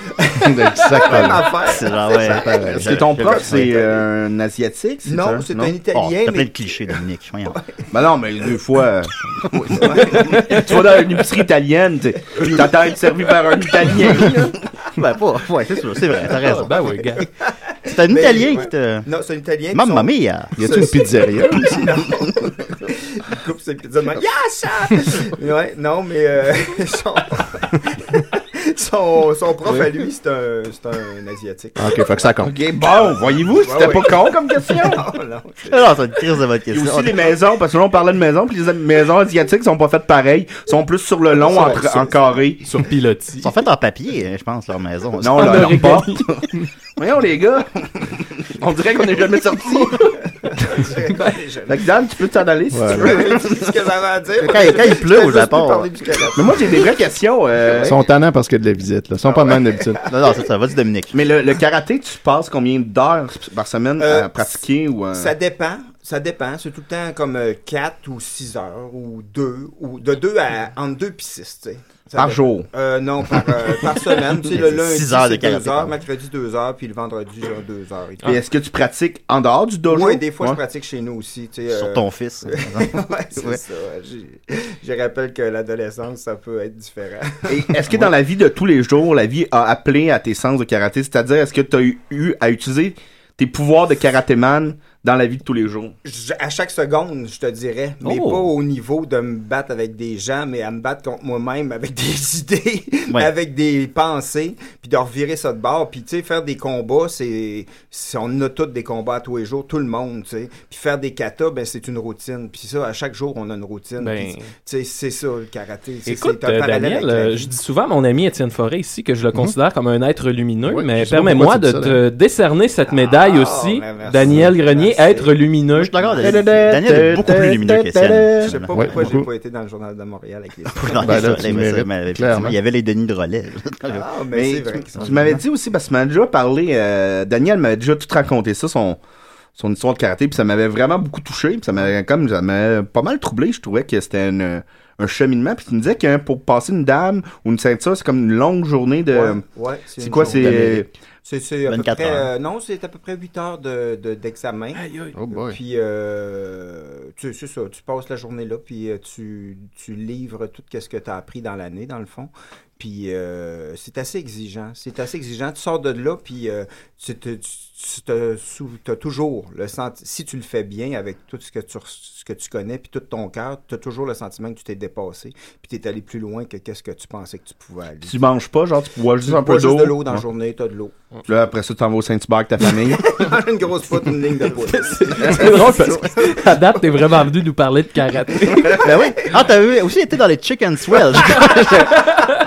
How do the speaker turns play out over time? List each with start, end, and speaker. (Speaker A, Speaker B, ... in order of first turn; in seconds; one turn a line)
Speaker A: 0.2-4.0
Speaker B: 0.4-1.5
Speaker C: 1.1-3.8
Speaker B: 2.4-2.8
Speaker D: 2.7-5.7
Speaker A: 5.0-7.0
Speaker C: 5.9-7.6
Speaker A: 7.5-7.8
Speaker D: 7.9-14.6
Speaker A: 9.8-10.6
Speaker C: 14.9-16.9
Speaker E: 16.3-17.2
Speaker A: 17.4-32.3
Speaker C: 17.8-19.1
Speaker C: 19.7-20.6
Speaker B: 20.6-22.1
Speaker B: 31.8-32.5
Speaker D: 32.4-35.0
Speaker A: 33.0-35.9
Speaker C: 35.7-37.2
Speaker D: 36.7-42.7
Speaker A: 41.4-42.2
Speaker E: 42.6-43.5
Speaker C: 43.4-45.9
Speaker D: 45.2-50.1
Speaker E: 45.4-46.2
Speaker A: 50.4-51.8
Speaker D: 51.7-53.5
Speaker B: 52.7-53.1
Speaker A: 52.9-56.8
Speaker C: 54.4-55.9
Speaker D: 56.3-58.0
Speaker B: 57.8-60.0
Speaker A: 59.3-60.3
Speaker C: 60.0-61.1
Speaker D: 61.1-65.3
Speaker A: 64.0-64.5
Speaker A: 65.1-78.3
Speaker D: 72.2-72.7
Speaker C: 74.3-75.9
Speaker D: 78.2-80.6
Speaker A: 79.9-87.8
Speaker C: 81.7-83.6
Speaker D: 87.5-95.9
Speaker A: 96.0-117.5
Speaker E: 114.0-114.5
Speaker E: 116.0-126.0
Speaker B: 120.7-122.0
Speaker A: 122.9-125.3
Speaker C: 125.7-129.0
Speaker A: 126.0-126.4
Speaker D: 126.2-128.6
Speaker A: 128.4-131.3
Speaker B: 128.7-129.3
Speaker C: 130.7-134.1
Speaker B: 131.0-132.6
Speaker A: 133.9-135.4
Speaker D: 134.3-139.0
Speaker D: 139.5-149.4
Speaker A: 149.1-150.6
Speaker D: 150.0-150.9
Speaker C: 150.4-150.7
Speaker A: 151.2-178.2
Speaker C: 151.7-152.3
Speaker E: 154.7-155.1
Speaker B: 155.1-155.6
Speaker D: 178.0-180.2
Speaker A: 179.2-180.9
Speaker D: 181.2-183.2
Speaker A: 182.9-186.7
Speaker E: 184.6-188.9
Speaker A: 188.6-189.3
Speaker C: 188.7-192.1